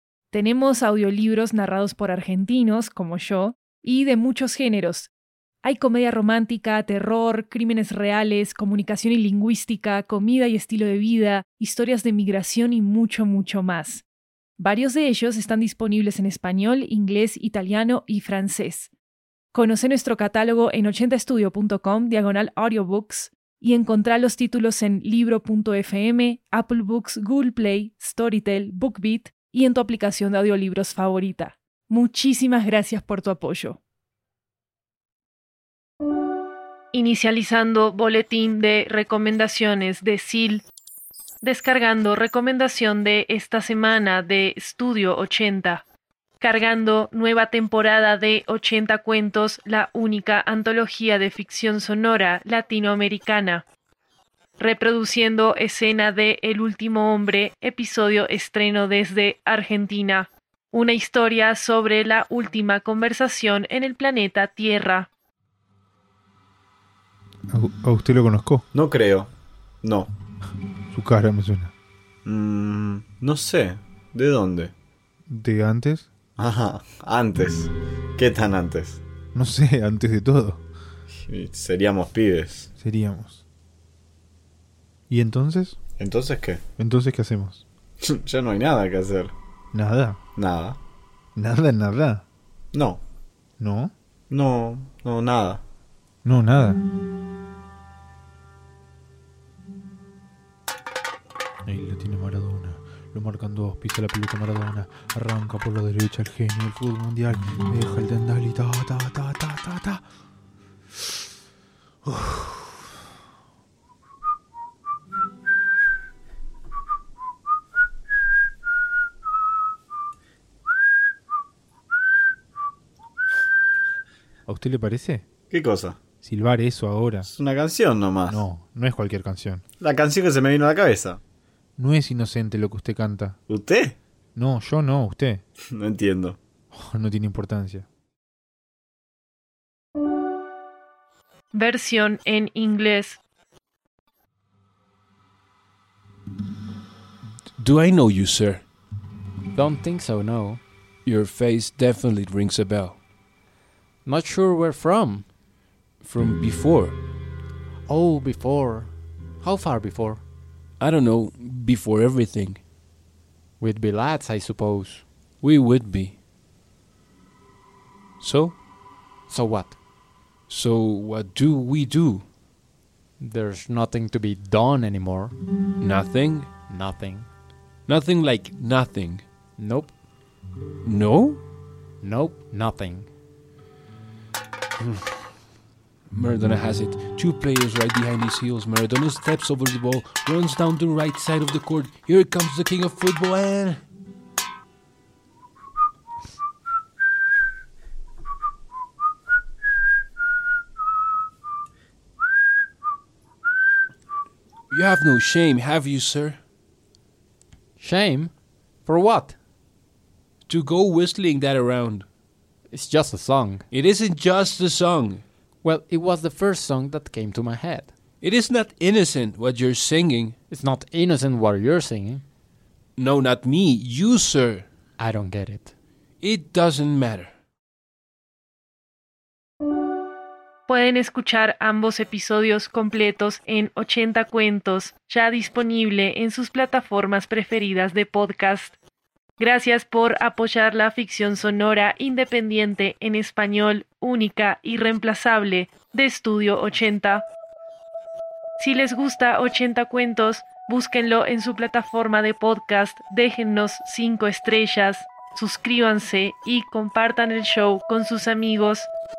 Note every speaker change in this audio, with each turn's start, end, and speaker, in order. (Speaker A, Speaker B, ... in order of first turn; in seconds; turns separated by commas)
Speaker A: 0.3-5.1, Speaker A: 5.6-14.1, Speaker A: 14.6-18.9, Speaker A: 19.5-33.8, Speaker A: 36.9-40.6, Speaker A: 41.4-45.8, Speaker A: 46.4-53.6, Speaker A: 54.6-65.1, Speaker B: 67.5-68.7, Speaker C: 68.7-69.3, Speaker C: 69.8-70.1, Speaker B: 70.9-71.7, Speaker C: 72.2-74.7, Speaker B: 75.3-76.1, Speaker C: 76.4-79.0, Speaker B: 79.3-80.6, Speaker C: 81.1-82.7, Speaker B: 82.8-83.4, Speaker B: 85.1-85.8, Speaker C: 86.0-86.6, Speaker B: 86.8-87.7, Speaker C: 88.0-89.3, Speaker B: 89.7-90.2, Speaker C: 90.4-90.8, Speaker B: 91.3-92.2, Speaker C: 92.7-93.0, Speaker B: 93.6-93.9, Speaker C: 94.3-95.6, Speaker B: 96.2-96.8, Speaker B: 101.6-110.0, Speaker B: 112.0-112.8, Speaker B: 124.5-125.2, Speaker C: 125.5-126.0, Speaker B: 126.2-127.3, Speaker C: 127.2-128.4, Speaker B: 128.3-129.6, Speaker C: 129.8-131.2, Speaker B: 131.8-133.4, Speaker C: 133.5-134.0, Speaker B: 134.3-135.4, Speaker C: 135.7-136.4, Speaker B: 136.7-137.8, Speaker A: 141.5-143.2, Speaker D: 147.5-148.6, Speaker E: 149.5-150.6, Speaker D: 151.0-153.0, Speaker E: 154.0-155.3, Speaker D: 156.0-157.0, Speaker E: 157.9-160.2, Speaker D: 160.8-162.6, Speaker E: 163.6-165.0, Speaker D: 165.4-166.2, Speaker D: 168.2-168.6, Speaker E: 169.3-169.8, Speaker D: 170.5-172.2, Speaker E: 173.2-175.3, Speaker D: 175.8-176.5, Speaker E: 176.7-177.3, Speaker D: 177.9-179.2, Speaker E: 179.6-180.0, Speaker D: 180.8-181.4, Speaker E: 182.0-183.1, Speaker D: 186.1-193.8, Speaker D: 204.7-206.4, Speaker E: 207.8-208.3, Speaker E: 208.8-209.4, Speaker D: 210.4-212.1, Speaker E: 212.7-213.7, Speaker D: 213.7-215.2, Speaker E: 215.6-217.9, Speaker D: 218.2-220.3, Speaker E: 220.5-222.2, Speaker D: 223.0-224.7, Speaker E: 225.0-225.7, Speaker D: 226.2-227.3, Speaker A: 230.7-238.8, Speaker A: 239.4-247.3, Speaker A: 248.6-258.9